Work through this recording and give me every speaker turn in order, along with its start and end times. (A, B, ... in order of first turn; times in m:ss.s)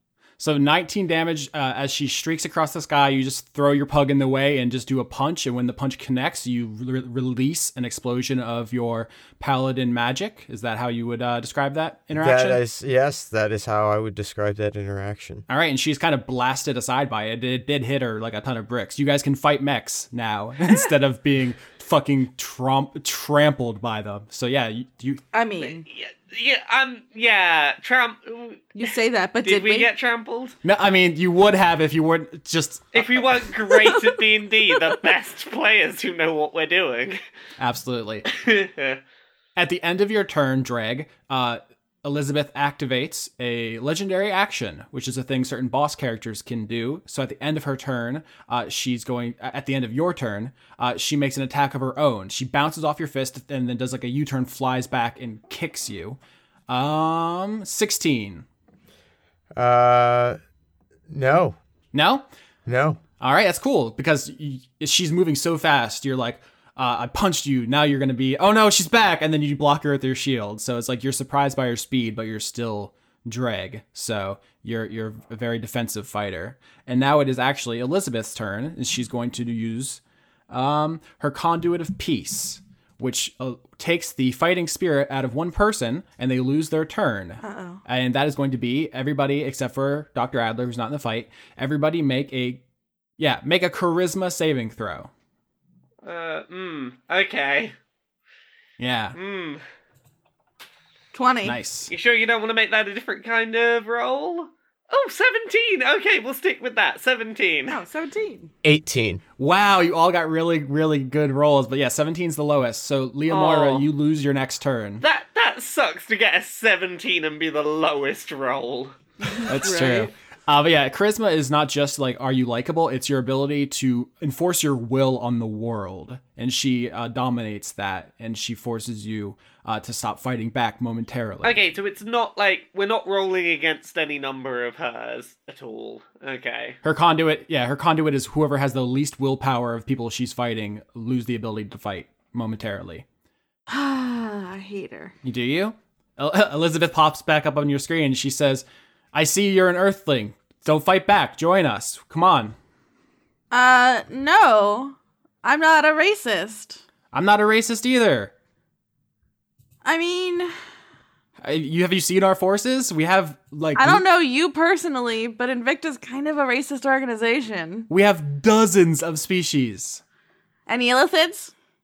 0:00.4-0:12.6 A
0:12.2-0:15.4 B
0:15.5-0:25.2 A
0:25.3-0:25.8 C
0:25.6-0:28.7 D
0:28.7-0:29.9 C
0:29.4-0:30.5 D
0:30.6-0:33.4 A
0:32.9-0:37.2 D
0:37.6-0:38.2 A
0:38.3-0:39.0 D
0:39.6-0:58.4 A
0:59.6-1:00.4 B
1:01.1-1:01.6 B
1:01.9-1:02.2 A
1:02.6-1:03.0 B
1:03.2-1:32.6 A
1:27.4-1:27.8 C
1:33.2-1:35.1 A
1:36.0-1:37.7 D
1:38.8-1:39.2 A
1:39.1-1:39.6 D
1:41.1-1:41.6 C
1:41.4-1:41.9 A
1:41.9-1:47.8 D
1:47.7-1:48.5 C
1:48.6-1:49.2 B
1:49.4-1:55.0 A
1:53.3-1:53.9 D
1:55.0-1:59.0 D
1:59.2-2:00.1 C
1:59.5-2:11.6 A
2:11.4-2:16.8 D
2:16.8-2:23.0 A
2:23.7-2:25.1 C
2:25.2-2:32.5 A
2:33.5-2:36.8 C
2:37.1-2:38.3 A
2:39.8-2:40.5 C
2:41.4-2:44.0 A
2:43.8-2:47.9 C
2:47.9-2:50.0 A
2:50.7-2:51.5 C